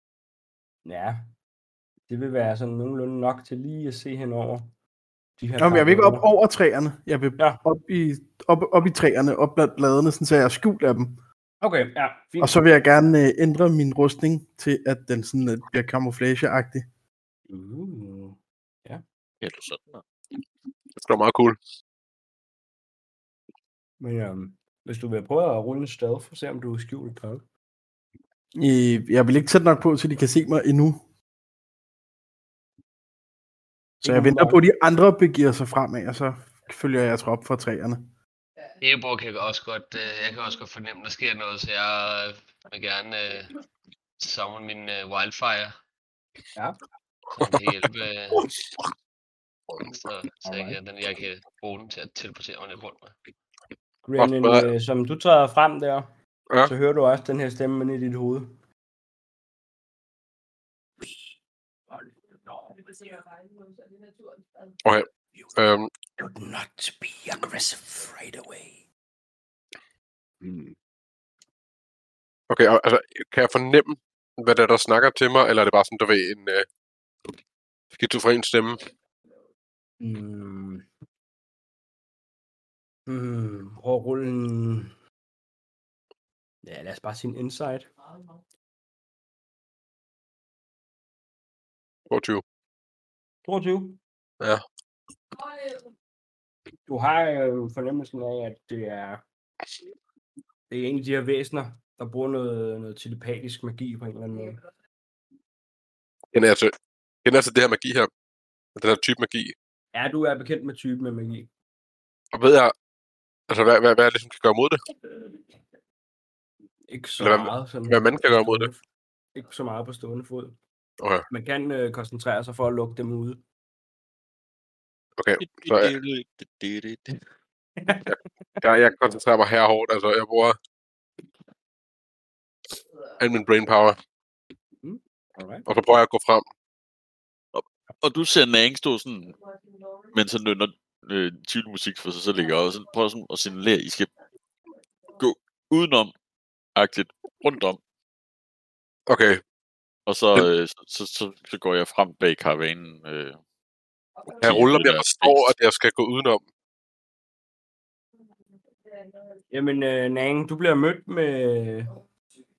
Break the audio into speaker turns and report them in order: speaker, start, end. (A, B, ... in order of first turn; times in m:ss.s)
0:00.8-0:01.3 A
0:02.1-0:04.7 A
0:05.4-0:06.3 A
0:05.6-0:11.2 B
0:11.6-0:12.6 A
0:12.4-0:16.9 B
0:17.5-0:19.0 A
0:19.4-0:20.0 C
0:21.0-0:21.6 D
0:24.0-0:27.4 A
0:28.6-0:31.0 B
0:34.0-0:34.6 A
0:34.0-0:38.1 B
0:38.8-0:43.5 E
0:44.2-0:45.8 E
0:47.4-0:48.4 E
0:50.0-0:53.2 E
0:50.4-0:50.8 A
0:54.1-0:56.1 A
0:54.2-0:54.7 D
0:56.6-0:58.6 A
1:01.0-1:01.4 F
1:01.9-1:03.2 F
1:04.8-1:05.9 D
1:06.2-1:08.8 F
1:10.4-1:10.7 A
1:12.5-1:16.7 D
1:17.9-1:18.8 D
1:20.0-1:20.9 A
1:23.1-1:24.9 A
1:26.6-1:27.9 A
1:32.1-1:32.4 D
1:33.4-1:34.0 A
1:36.9-1:39.2 A
1:40.7-1:44.6 A
1:46.3-1:46.7 D
1:47.2-1:48.1 D
1:48.8-1:49.6 D
1:49.9-1:51.5 A
1:52.3-1:52.7 D
1:53.5-1:54.8 D
1:56.9-1:58.8 A
1:57.2-1:58.7 D
1:59.4-2:00.6 A
2:01.0-2:01.3 D
2:01.3-2:03.4 A
2:05.2-2:06.0 D
2:05.4-2:07.2 C
2:07.8-2:08.1 A
2:08.6-2:10.6 D
2:13.2-2:14.0 D
2:14.8-2:15.7 A
2:15.7-2:16.4 D
2:17.5-2:19.4 C
2:20.1-2:24.1 C
2:25.2-2:26.1 C
2:26.8-2:27.8 C
2:29.1-2:29.4 D
2:30.1-2:33.4 C
2:34.4-2:36.4 D
2:34.4-2:35.5 C
2:39.5-2:41.9 A